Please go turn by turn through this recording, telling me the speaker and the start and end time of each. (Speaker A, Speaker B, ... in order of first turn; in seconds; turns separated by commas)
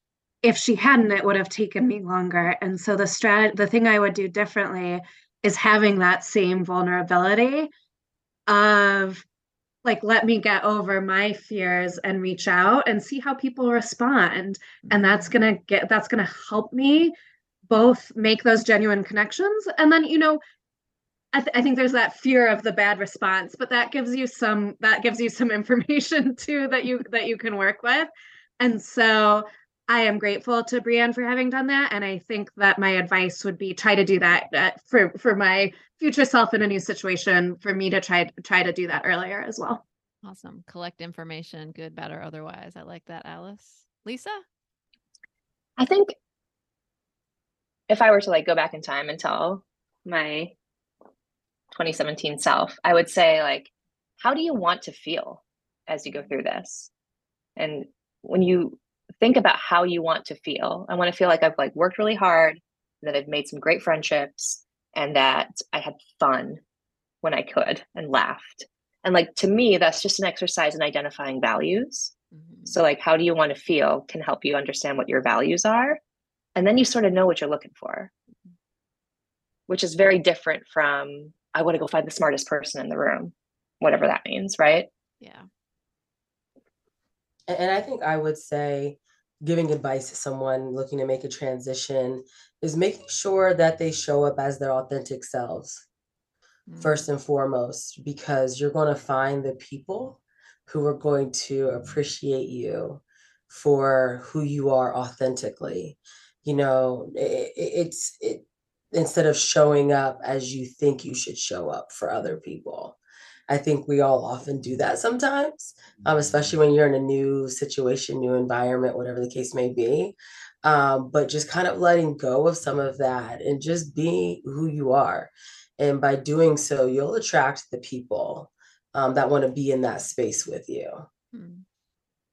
Speaker A: 0.4-7.7, Speaker A: 8.5-9.2, Speaker A: 9.8-17.1, Speaker B: 14.9-15.3, Speaker A: 17.7-20.4, Speaker A: 21.3-39.8, Speaker B: 40.2-44.4, Speaker C: 45.8-46.1, Speaker C: 47.9-50.5, Speaker C: 51.7-56.9, Speaker C: 57.6-66.6, Speaker C: 67.2-72.1, Speaker B: 72.3-72.8, Speaker C: 72.7-76.0, Speaker C: 76.6-78.1, Speaker C: 79.7-84.9, Speaker B: 85.2-85.5, Speaker D: 87.5-95.8, Speaker B: 96.7-97.0, Speaker D: 96.8-113.0, Speaker D: 113.5-131.1, Speaker B: 131.3-131.7